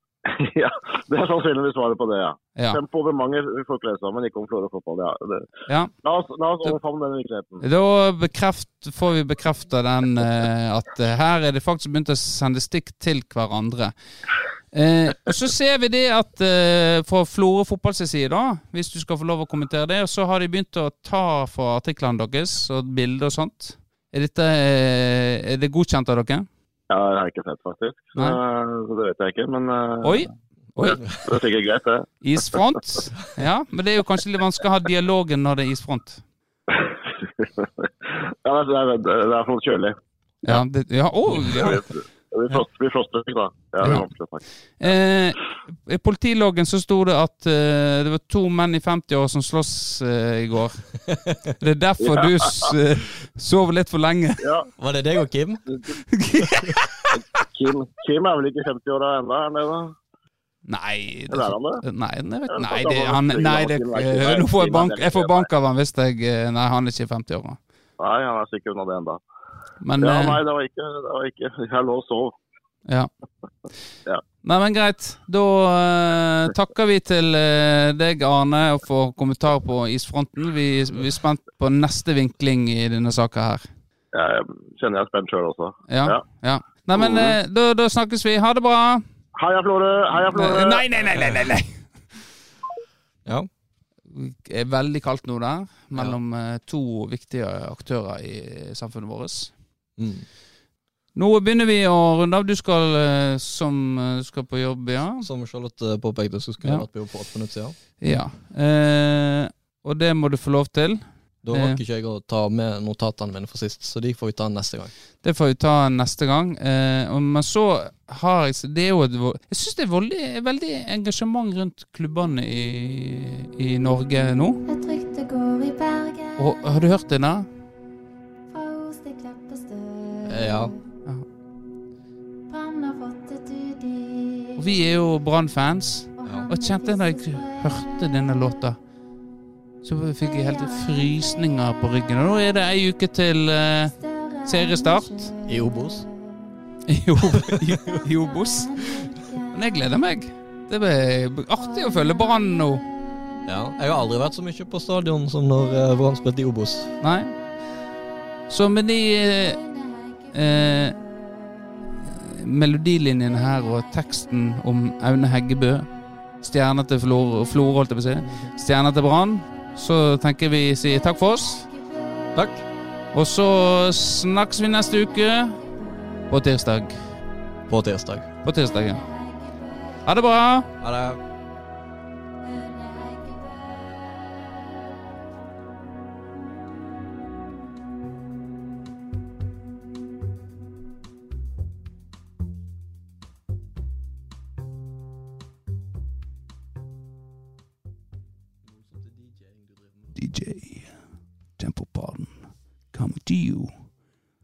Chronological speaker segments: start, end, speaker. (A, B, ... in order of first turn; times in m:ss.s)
0:00.2-0:05.5 A
0:05.7-0:05.9 B
0:06.0-0:07.6 A
0:07.6-0:13.9 B
0:14.7-0:26.4 B
0:26.9-0:30.2 A
0:30.0-0:31.2 B
0:30.8-0:32.6 A
0:32.2-0:36.2 B
0:36.7-0:40.0 A
0:40.4-0:41.8 B
0:41.3-0:44.9 A
0:43.8-0:44.1 B
0:44.8-0:51.0 B
0:51.1-0:51.4 C
0:51.6-0:54.4 B
0:52.0-0:52.3 A
0:54.4-0:54.7 A
0:54.8-0:55.6 C
0:56.1-0:57.1 B
0:57.1-0:59.9 A
1:00.6-1:07.6 B
1:01.3-1:01.8 A
1:02.5-1:05.5 A
1:08.0-1:09.2 A
1:09.8-1:10.4 B
1:10.0-1:12.4 A
1:14.4-1:23.7 B
1:24.1-1:26.2 A
1:25.9-1:29.0 B
1:26.9-1:27.4 A
1:29.4-1:30.8 A
1:30.2-1:32.2 B
1:34.1-1:39.5 B
1:40.0-1:40.3 C
1:41.1-1:45.3 B
1:45.2-1:47.7 C
1:46.6-1:46.9 B
1:48.0-1:51.8 B
1:51.4-1:54.9 C
1:55.2-2:04.6 B
2:04.7-2:06.6 D
2:06.4-2:07.5 B
2:08.5-2:10.7 D
2:10.2-2:10.7 C
2:12.5-2:14.6 D
2:14.6-2:18.9 B
2:16.2-2:18.0 D
2:16.2-2:16.5 C
2:19.8-2:25.3 B
2:20.3-2:21.3 D
2:24.0-2:26.1 D
2:25.4-2:26.1 C
2:26.9-2:32.8 B
2:28.0-2:29.5 D
2:33.4-2:36.9 C
2:37.0-2:37.3 B
2:38.5-2:39.6 B
2:40.3-2:41.0 B
2:42.1-2:51.7 B
2:52.3-2:52.6 C
2:53.1-2:55.6 B
2:56.3-2:57.1 B
2:57.7-2:58.3 C
2:58.4-2:59.0 B
2:59.0-3:00.0 D
3:00.0-3:00.7 B
3:00.8-3:01.2 C
3:02.4-3:04.2 D
3:18.7-3:19.9 C
3:20.1-3:21.0 B
3:21.6-3:23.9 B